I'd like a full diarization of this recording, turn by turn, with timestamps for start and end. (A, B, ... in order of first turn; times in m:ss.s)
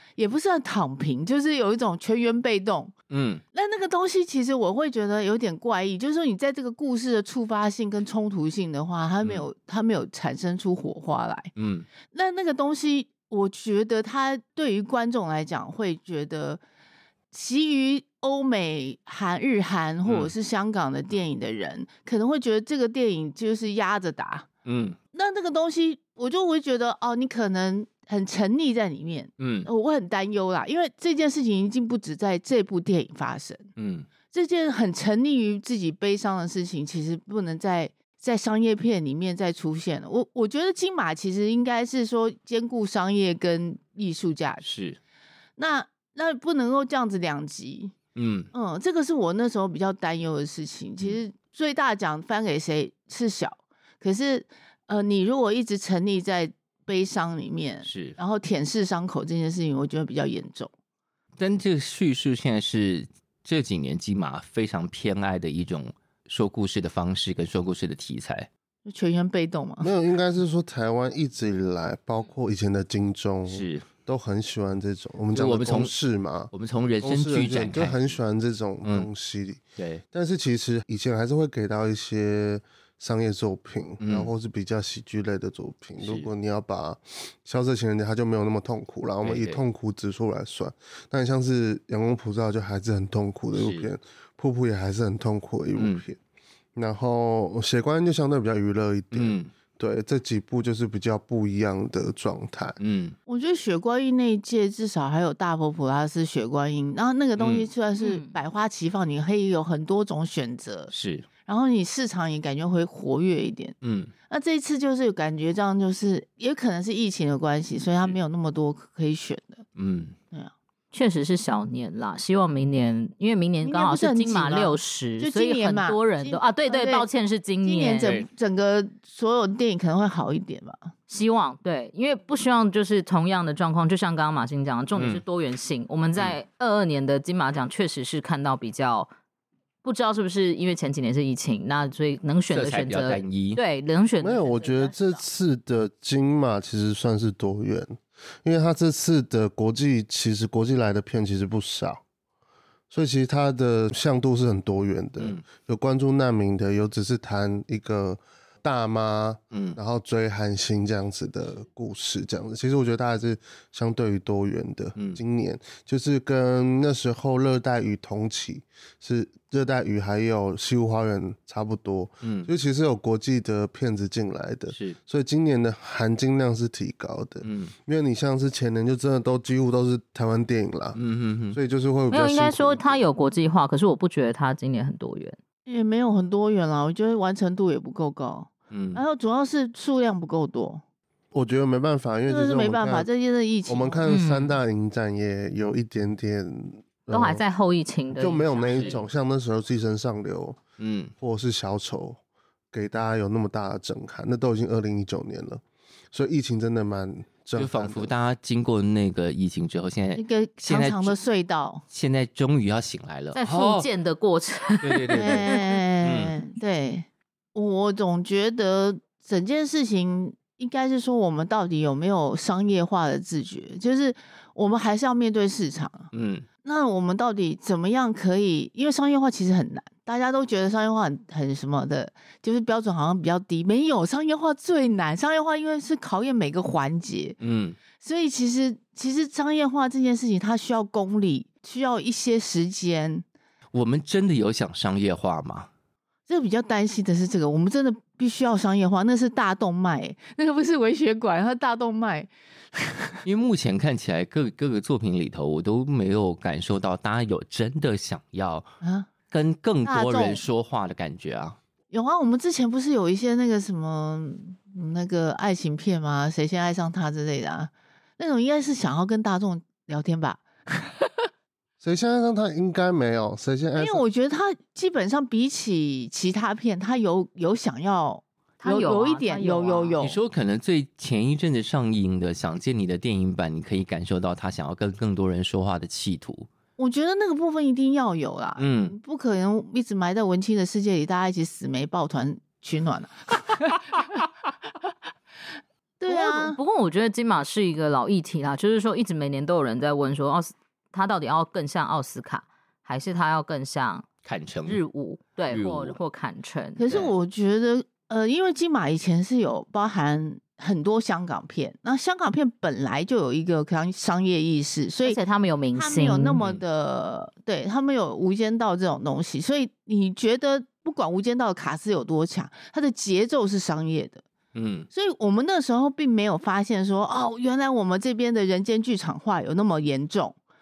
0:00.2-0:02.9 A
0:03.1-0:03.4 B
0:03.5-0:11.5 A
0:11.6-0:11.9 B
0:12.1-0:16.6 A
0:17.3-0:24.5 A
0:20.0-0:20.3 B
0:24.6-0:25.0 B
0:25.1-0:33.7 A
0:29.4-0:29.7 B
0:33.8-0:34.1 B
0:34.3-0:44.7 A
0:44.6-0:45.0 B
0:45.6-0:48.0 A
0:48.2-0:48.5 B
0:48.5-1:00.7 A
0:57.9-0:58.2 B
1:01.4-1:08.5 B
1:08.9-1:09.9 A
1:09.8-1:19.6 C
1:13.5-1:13.9 B
1:15.3-1:15.9 B
1:16.5-1:18.2 B
1:19.8-1:20.0 B
1:20.1-1:36.2 C
1:24.0-1:24.3 B
1:26.0-1:26.3 B
1:29.2-1:29.6 B
1:33.5-1:33.9 B
1:36.8-1:42.8 C
1:39.1-1:39.5 B
1:42.8-1:43.2 B
1:43.3-1:50.9 A
1:47.4-1:47.7 B
1:48.0-1:48.4 D
1:50.9-1:51.3 B
1:51.5-1:53.8 A
1:53.8-1:54.1 B
1:54.3-1:59.6 A
1:59.8-2:00.2 B
2:00.9-2:08.1 D
2:03.6-2:07.1 A
2:07.6-2:10.8 A
2:08.0-2:08.3 B
2:11.1-2:19.1 D
2:15.0-2:15.2 B
2:19.8-2:25.2 D
2:22.5-2:23.6 B
2:24.2-2:32.0 C
2:32.9-3:01.0 C
2:39.5-2:39.8 B
2:52.2-2:52.5 B
2:54.7-2:55.0 B
2:57.4-2:57.7 B
3:01.0-3:01.6 B
3:01.5-3:03.0 C
3:02.1-3:05.4 D
3:05.7-3:10.8 A
3:08.7-3:09.0 B
3:11.3-3:13.1 C
3:12.3-3:14.0 A
3:13.7-3:17.4 C
3:14.1-3:14.6 D
3:17.1-3:19.0 D
3:18.2-3:20.6 C
3:18.7-3:19.0 B
3:20.8-3:21.1 B
3:21.2-3:22.2 C
3:22.7-3:28.1 C
3:27.6-3:31.2 B
3:30.2-3:31.8 A
3:31.9-3:33.9 B
3:33.3-3:35.6 D
3:34.8-3:35.5 B
3:35.1-3:46.1 A
3:36.0-3:36.4 B
3:46.1-3:46.5 B
3:46.6-3:57.4 A
3:57.4-3:57.8 B
3:58.0-4:03.2 A
4:03.7-4:05.7 B
4:06.3-4:13.2 A
4:13.2-4:18.7 B
4:18.8-4:19.1 A
4:19.3-4:21.6 B
4:19.8-4:20.4 A
4:21.9-4:31.0 A
4:31.8-4:34.0 C
4:33.8-4:40.2 A
4:38.6-4:40.0 D
4:40.0-4:46.5 B
4:46.8-4:53.7 A
4:48.6-4:49.0 B
4:56.0-4:56.6 A
4:56.1-5:04.0 D
5:04.2-5:04.8 B
5:04.7-5:06.8 D
5:05.5-5:06.0 B
5:06.8-5:15.2 A
5:15.1-5:16.4 D
5:15.7-5:24.2 A
5:24.6-5:24.9 B
5:24.9-5:30.4 A